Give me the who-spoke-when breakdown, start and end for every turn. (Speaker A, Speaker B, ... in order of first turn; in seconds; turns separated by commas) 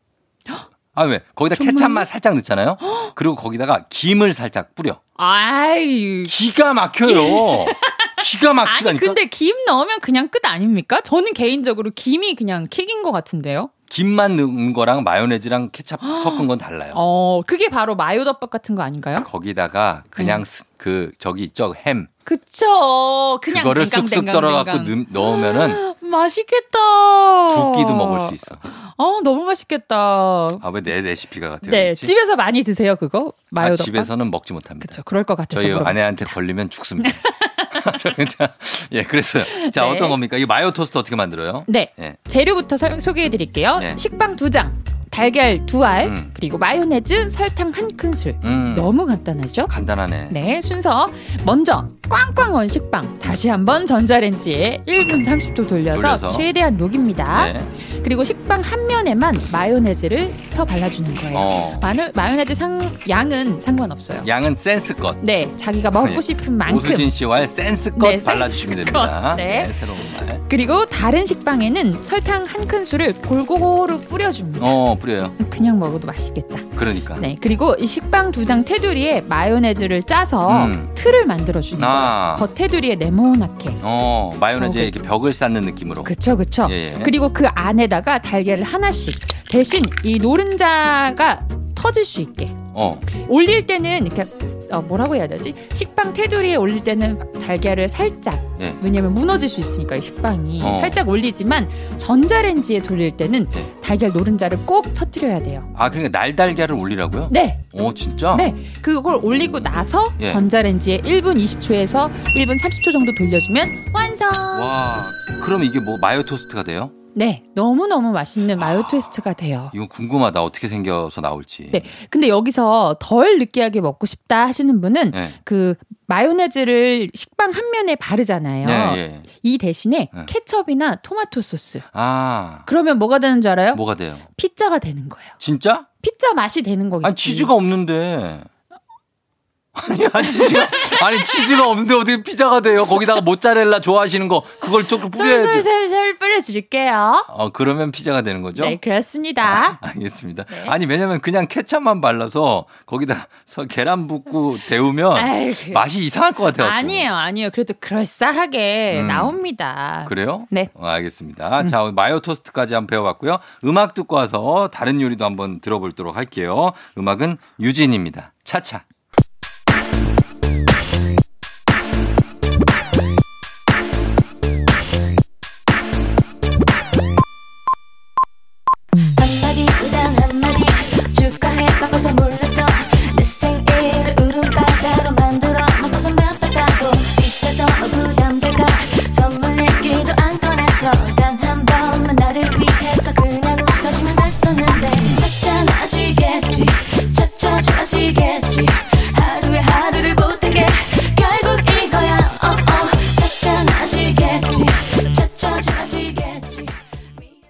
Speaker A: 0.9-5.0, Speaker B: 1.5-2.1, Speaker B: 2.8-3.1, Speaker B: 5.2-6.3, Speaker A: 6.2-9.2, Speaker B: 7.0-13.7, Speaker A: 13.9-17.0, Speaker B: 16.0-19.3, Speaker A: 19.1-22.1, Speaker B: 20.1-20.4, Speaker B: 22.2-30.6, Speaker A: 23.5-25.8, Speaker A: 27.5-28.6, Speaker A: 30.6-32.1, Speaker B: 31.6-34.1, Speaker A: 33.6-37.2, Speaker B: 34.8-36.4, Speaker B: 37.0-38.1, Speaker A: 37.7-42.2, Speaker B: 39.5-40.2, Speaker B: 41.7-49.7, Speaker A: 46.0-46.3, Speaker A: 48.4-48.9, Speaker A: 49.7-50.4, Speaker B: 50.3-64.3, Speaker A: 55.9-56.5, Speaker A: 57.3-57.7, Speaker A: 61.3-61.9, Speaker A: 64.2-65.2, Speaker B: 65.2-67.1, Speaker A: 65.9-70.4, Speaker B: 67.9-69.8, Speaker B: 70.4-74.8, Speaker A: 74.6-75.3, Speaker B: 75.4-83.8, Speaker A: 76.8-77.2, Speaker A: 80.5-80.9, Speaker A: 81.8-82.5, Speaker A: 83.8-87.1, Speaker B: 84.6-84.9, Speaker B: 86.0-105.7, Speaker A: 92.7-93.0, Speaker A: 100.6-101.0, Speaker A: 105.7-108.5, Speaker B: 107.3-107.7, Speaker B: 108.3-114.7, Speaker A: 114.5-116.9, Speaker B: 117.1-119.7, Speaker A: 118.6-119.1, Speaker A: 119.7-121.9, Speaker B: 121.7-131.9, Speaker A: 128.6-129.3, Speaker A: 131.9-132.7, Speaker B: 132.7-133.8, Speaker A: 133.7-134.2, Speaker B: 134.3-135.3, Speaker A: 135.4-135.9, Speaker B: 136.0-137.5, Speaker A: 137.0-138.5, Speaker A: 139.7-145.7, Speaker B: 140.1-141.7, Speaker B: 145.1-147.3, Speaker A: 147.3-148.8, Speaker B: 148.5-149.8, Speaker A: 149.4-157.1, Speaker B: 150.5-150.8, Speaker B: 155.1-155.9, Speaker B: 156.5-160.7, Speaker A: 158.9-159.4, Speaker A: 160.0-168.8, Speaker C: 179.1-206.8